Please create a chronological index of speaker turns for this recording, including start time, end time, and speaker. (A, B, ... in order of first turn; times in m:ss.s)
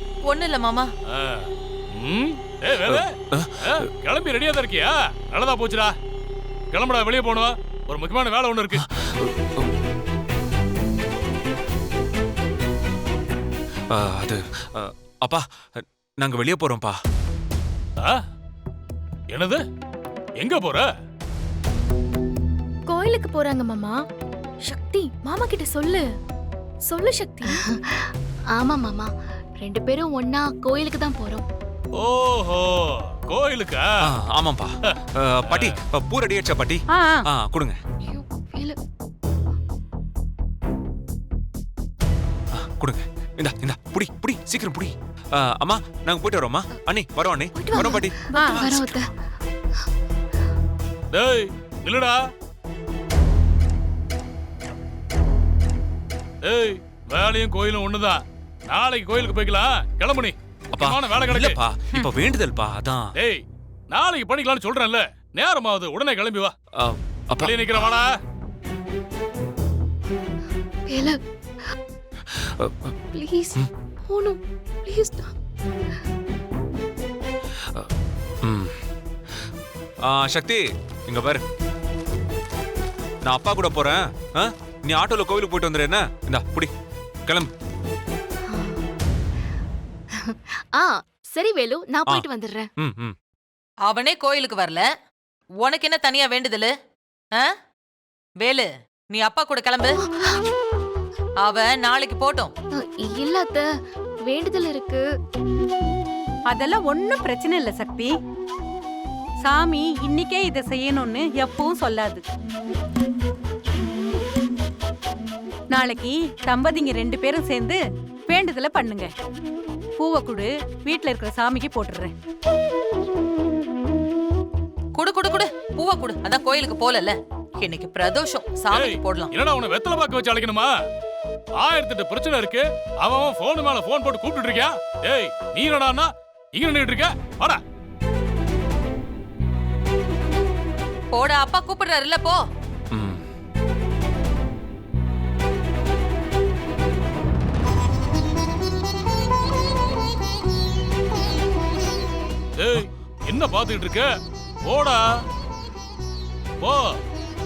0:00.3-0:00.9 A
0:01.1-0:05.9 B
0:02.9-0:03.9 C
0:06.7-0:08.8 B
0:08.8-0:09.7 C
0:13.9-0:17.0 C
0:19.3-0:19.6 B
0:20.4-0:20.9 B
0:22.9-0:24.0 D
0:24.7-0:26.0 D
0:26.9-0:27.6 D
0:27.5-0:31.5 E
0:32.0-0:34.0 B
0:34.0-0:37.8 C
0:34.9-0:35.8 B
0:36.9-0:37.3 F
0:38.0-0:38.8 E
0:42.5-0:49.0 C
0:47.6-0:49.1 E
0:48.3-0:48.8 F
0:51.1-0:52.2 B
0:56.4-1:01.6 B
1:00.7-1:03.1 C
1:03.2-1:06.5 B
1:06.8-1:07.6 C
1:07.4-1:08.2 B
1:10.9-1:11.2 E
1:12.3-1:12.9 C
1:13.2-1:15.3 E
1:17.6-1:17.9 C
1:18.4-1:18.8 C
1:20.0-1:21.4 C
1:23.2-1:26.7 C
1:28.5-1:28.8 E
1:30.1-1:32.7 E
1:32.8-1:33.2 C
1:33.9-1:34.9 A
1:35.6-1:36.7 A
1:38.4-1:39.9 A
1:40.0-1:40.4 E
1:41.4-1:42.5 A
1:42.8-1:43.7 E
1:44.3-1:45.0 E
1:46.5-1:48.1 F
1:49.4-1:52.2 F
1:55.8-1:59.1 F
2:00.0-2:02.1 F
2:05.0-2:09.3 A
2:08.7-2:10.7 B
2:11.6-2:17.6 B
2:21.1-2:22.4 A
2:22.9-2:23.2 C
2:32.6-2:34.1 B
2:34.6-2:35.1 B
2:36.6-2:37.0 B